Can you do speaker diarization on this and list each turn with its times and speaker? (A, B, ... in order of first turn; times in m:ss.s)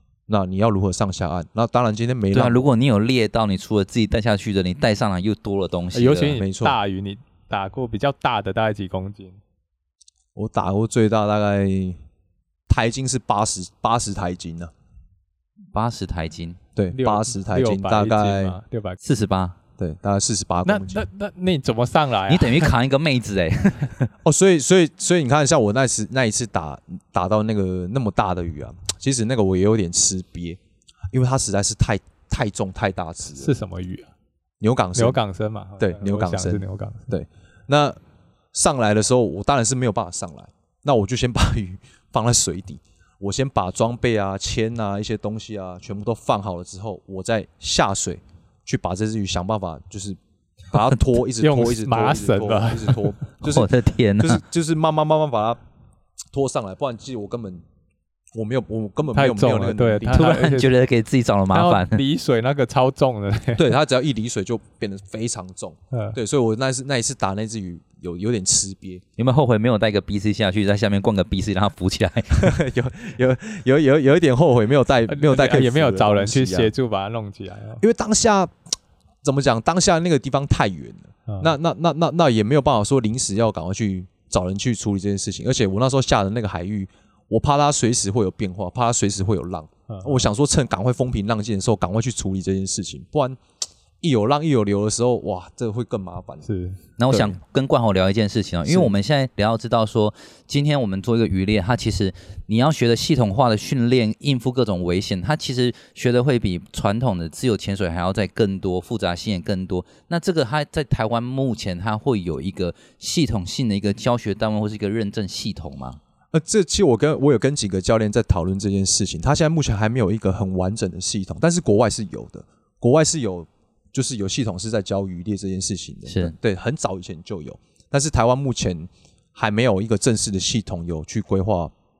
0:00.3-0:02.7 A
0:02.3-0:06.4 B
0:05.9-0:09.4 C
0:06.4-0:06.8 A
0:10.3-0:12.0 A
0:12.7-0:14.7 A
0:15.7-0:16.6 B
0:16.8-0:18.6 A
0:16.9-0:19.0 C
0:19.0-0:19.6 B
0:19.8-0:21.0 A
0:20.6-0:22.7 C
0:22.3-0:24.1 B
0:24.2-0:30.6 A
0:31.1-0:33.6 A
0:33.4-0:34.1 C
0:34.6-0:35.2 A
0:35.0-0:37.1 C
0:35.8-0:38.0 A
0:38.5-0:50.2 A
0:50.7-0:55.6 A
0:51.4-0:53.1 C
0:53.4-0:54.4 B
0:56.3-0:57.6 A
0:58.3-1:00.4 A
0:59.1-1:00.7 C
1:00.1-1:02.0 B
1:01.5-1:03.7 C
1:03.5-1:09.0 A
1:05.9-1:06.2 C
1:09.2-1:12.5 B
1:12.3-1:16.7 A
1:15.1-1:17.8 C
1:17.8-1:18.5 A
1:19.2-1:33.4 A
1:29.9-1:30.3 C
1:34.0-1:36.5 A
1:36.4-1:36.8 C
1:37.0-1:56.0 B
1:37.1-1:37.4 A
1:38.7-1:38.9 A
1:56.3-2:11.7 A
2:06.0-2:06.3 B